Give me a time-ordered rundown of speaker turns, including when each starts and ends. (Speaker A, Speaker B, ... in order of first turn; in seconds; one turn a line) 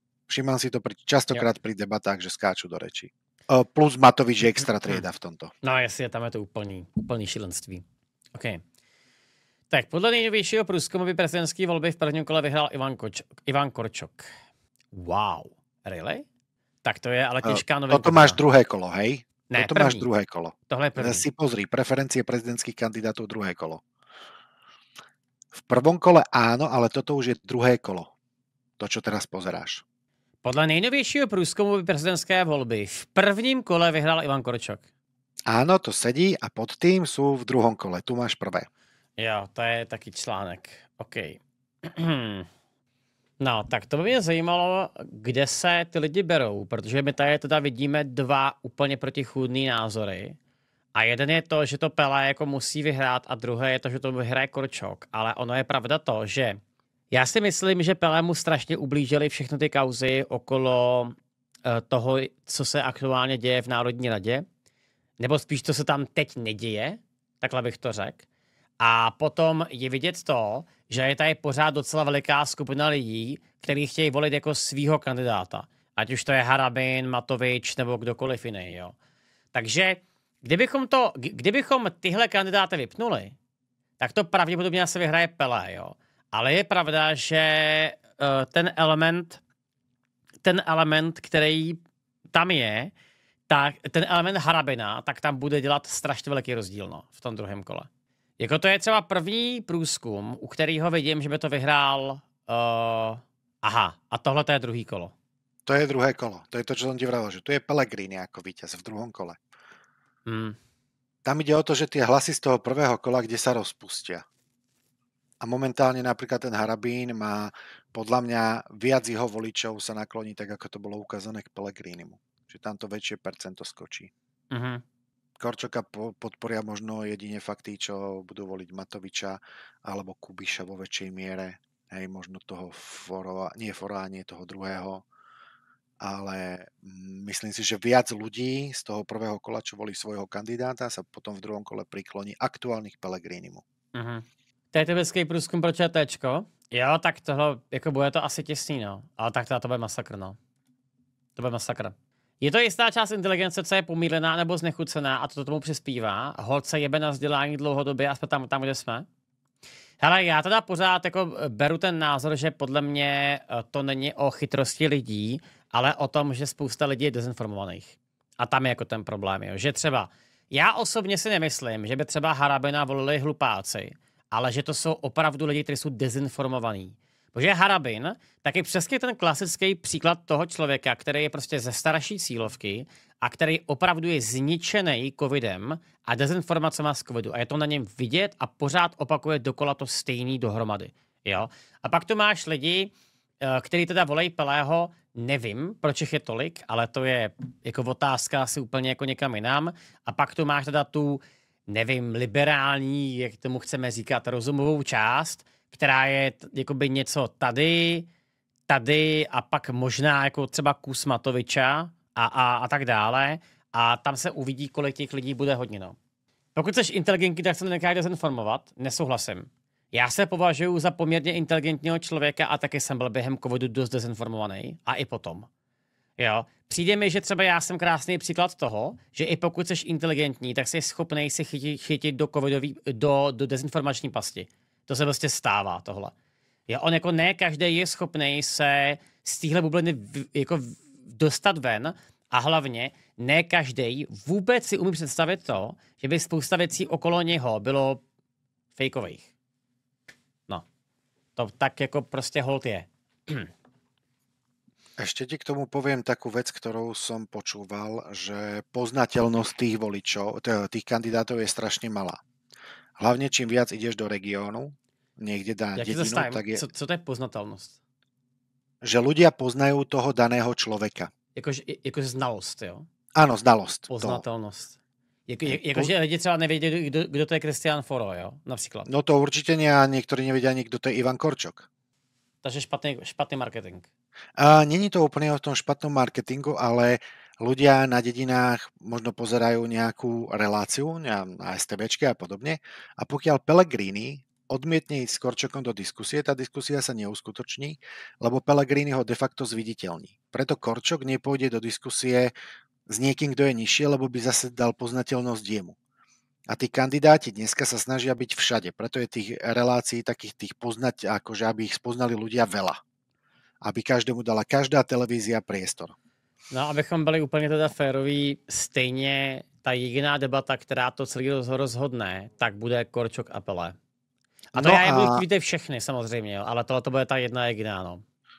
Speaker A: 0.3-5.5
Speaker B: 5.6-8.6
Speaker B: 9.7-14.3
Speaker B: 14.9-16.2
Speaker B: 16.8-18.4
Speaker A: 17.4-23.8
Speaker B: 19.5-20.1
Speaker B: 20.7-21.3
Speaker A: 25.6-28.1
Speaker A: 28.8-29.8
Speaker B: 30.4-34.8
Speaker A: 35.5-38.7
Speaker B: 39.2-42.5
Speaker B: 43.4-50.4
Speaker B: 51.0-56.6
Speaker B: 57.1-64.5
Speaker B: 65.2-68.2
Speaker B: 68.8-79.0
Speaker B: 79.5-83.3
Speaker B: 84.0-89.4
Speaker B: 90.4-91.8
Speaker B: 92.3-92.9
Speaker B: 93.5-97.9
Speaker B: 98.4-105.1
Speaker A: 105.7-109.4
Speaker B: 110.3-110.6
Speaker A: 111.2-114.2
Speaker A: 115.4-124.1
Speaker B: 124.5-124.8
Speaker A: 125.4-135.1
Speaker A: 136.0-143.6
Speaker B: 143.9-150.4
Speaker B: 151.4-159.1
Speaker B: 160.0-208.1
Speaker B: 208.7-216.0
Speaker B: 216.6-225.5
Speaker B: 226.2-236.1
Speaker B: 236.7-248.0
Speaker B: 248.8-249.3
Speaker B: 251.4-253.5
Speaker A: 255.0-262.2
Speaker A: 263.0-266.7
Speaker B: 265.8-267.8
Speaker A: 268.8-271.1
Speaker B: 271.4-272.9
Speaker A: 273.1-274.2
Speaker B: 273.9-274.8
Speaker B: 275.3-278.9
Speaker A: 275.5-275.9
Speaker A: 278.9-281.7
Speaker B: 282.4-283.9
Speaker A: 284.4-302.3
Speaker A: 302.9-305.8
Speaker A: 306.5-312.8
Speaker A: 313.6-315.9
Speaker B: 316.5-323.8
Speaker A: 324.5-325.2
Speaker B: 324.6-328.0